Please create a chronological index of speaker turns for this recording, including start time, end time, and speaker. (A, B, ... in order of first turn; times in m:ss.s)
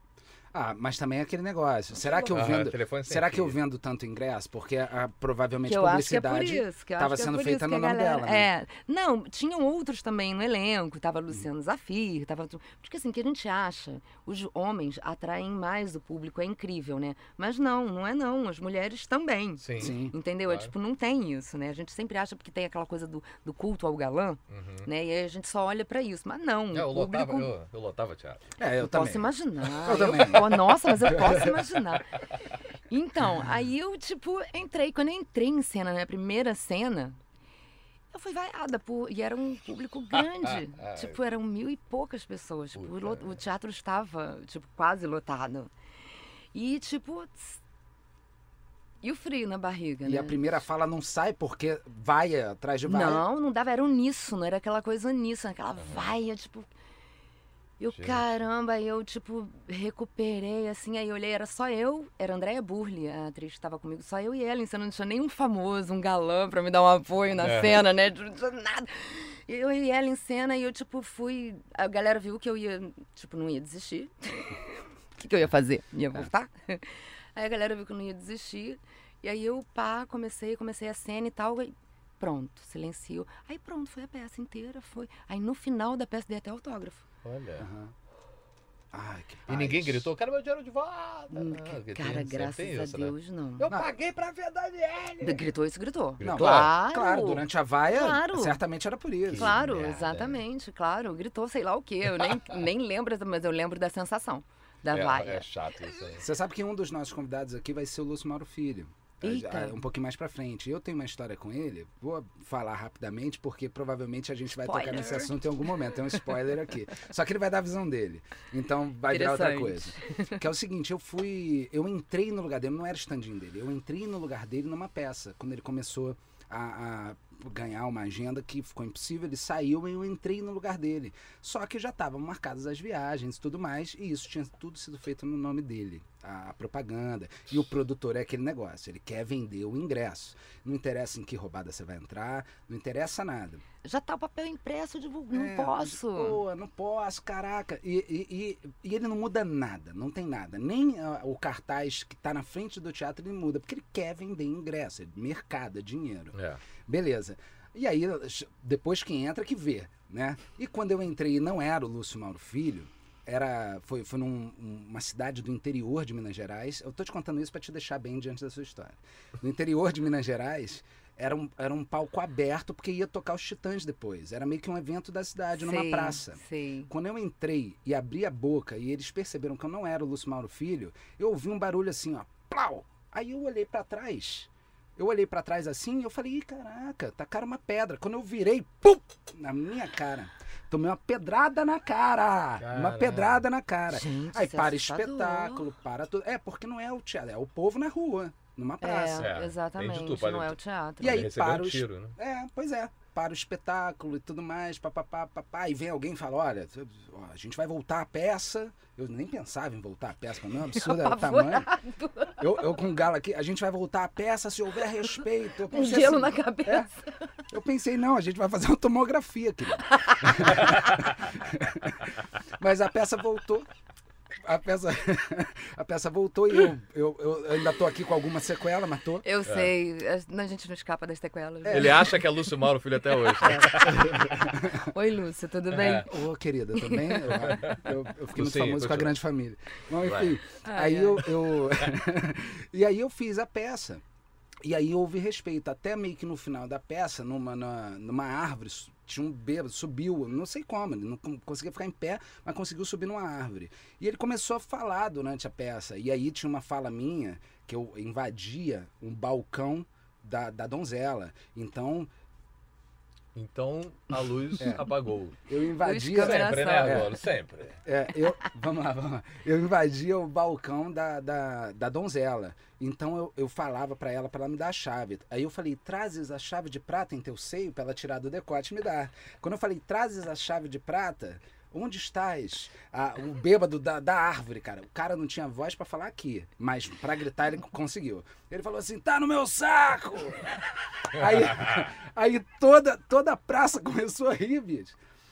0:00.5-0:08.5 A
0:02.0-0:02.4 B
0:02.3-0:03.6 C
0:05.7-0:27.5 B
0:19.6-0:20.0 C
0:19.8-0:20.2 A
0:20.5-0:20.7 C
0:24.5-0:24.9 C
0:26.7-0:28.4 C
0:28.6-0:29.3 A
0:28.8-0:32.2 B
0:29.8-0:31.5 A
0:32.9-0:37.2 B
0:38.1-0:45.7 B
0:40.2-0:41.2 C
0:42.8-0:43.3 C
0:46.5-0:47.6 B
0:49.0-0:50.4 B
0:50.0-0:53.2 A
0:52.8-0:56.7 B
0:55.8-0:56.1 C
0:57.8-1:27.0 B
0:57.9-0:58.2 C
1:07.4-1:07.8 C
1:27.2-1:27.7 C
1:27.6-1:27.9 A
1:28.9-1:30.1 A
1:29.5-1:35.4 C
1:31.3-1:33.7 B
1:35.2-1:38.6 B
1:36.2-1:36.7 C
1:36.2-1:39.6 A
1:39.3-1:40.4 C
1:39.3-1:45.5 B
1:42.2-1:42.5 C
1:44.9-1:46.2 C
1:46.2-2:23.6 A
1:49.2-1:49.8 B
1:54.6-1:56.1 B
1:59.1-2:00.4 B
2:23.8-2:26.4 B
2:25.3-2:36.3 A
2:36.3-2:36.6 C
2:36.9-3:19.3 A
2:55.6-2:56.9 B
3:12.6-3:13.4 C
3:13.9-3:15.7 B
3:18.8-3:21.3 B
3:19.2-3:22.2 C
3:21.0-3:31.7 A
3:30.7-3:32.5 B
3:32.4-3:36.9 A
3:35.7-3:37.3 B
3:37.5-3:43.7 A
3:39.8-3:41.0 B
3:44.4-3:49.2 A
3:49.2-3:52.3 B
3:49.5-3:49.7 C
3:51.6-3:52.1 A
3:51.7-3:54.5 C
3:53.2-3:56.1 B
3:53.7-3:54.9 A
3:55.7-3:56.1 C
3:55.9-4:04.0 A
3:56.8-3:57.6 B
3:57.4-3:59.1 C
4:00.0-4:00.4 C
4:00.6-4:01.3 B
4:04.6-4:22.1 A
4:23.4-4:25.4 C
4:24.6-4:24.8 A
4:25.5-4:27.2 A
4:25.8-4:27.2 B
4:26.2-4:27.8 C
4:27.8-4:55.0 A